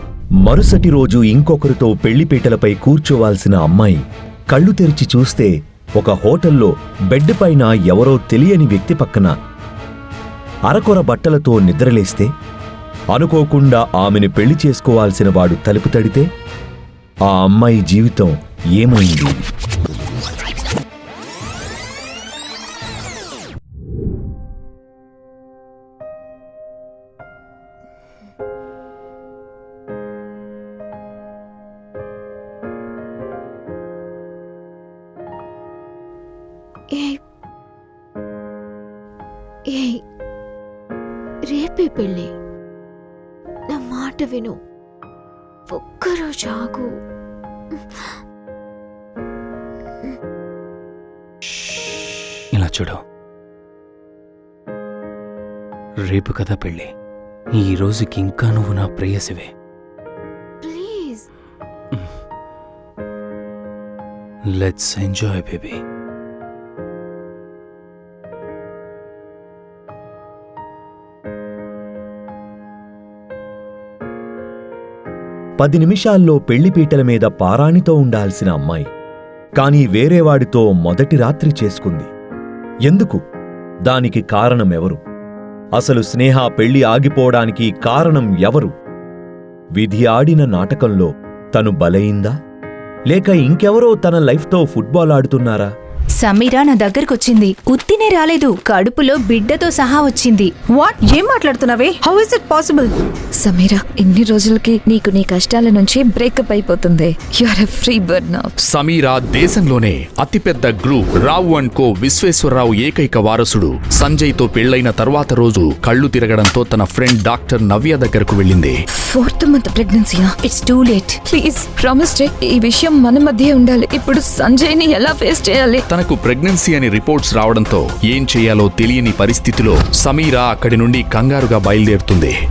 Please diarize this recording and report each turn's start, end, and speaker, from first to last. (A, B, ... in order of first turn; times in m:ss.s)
0:00.4-0:09.3 A
0:10.7-0:12.3 A
0:13.1-0:16.2 A
0:17.3-0:19.3 A
0:36.9-0:37.2 B
0:39.7-0:40.0 B
0:41.5-0:42.3 B
0:43.7-0:44.5 B
0:45.7-0:46.9 B
0:52.6-0:53.0 C
0:56.1-0:56.8 C
0:57.5-0:59.4 C
1:00.6-1:01.2 B
1:04.6-1:05.3 C
1:15.6-1:18.9 A
1:19.6-1:22.1 A
1:22.9-1:23.2 A
1:23.8-1:25.0 A
1:25.8-1:28.7 A
1:29.8-1:32.3 A
1:33.1-1:35.7 A
1:36.2-1:40.7 D
1:40.8-1:42.9 E
1:41.6-1:42.0 D
1:43.4-1:48.5 F
1:48.6-1:58.8 G
1:59.0-2:00.4 F
2:00.4-2:01.1 D
2:01.2-2:05.8 F
2:05.9-2:12.3 G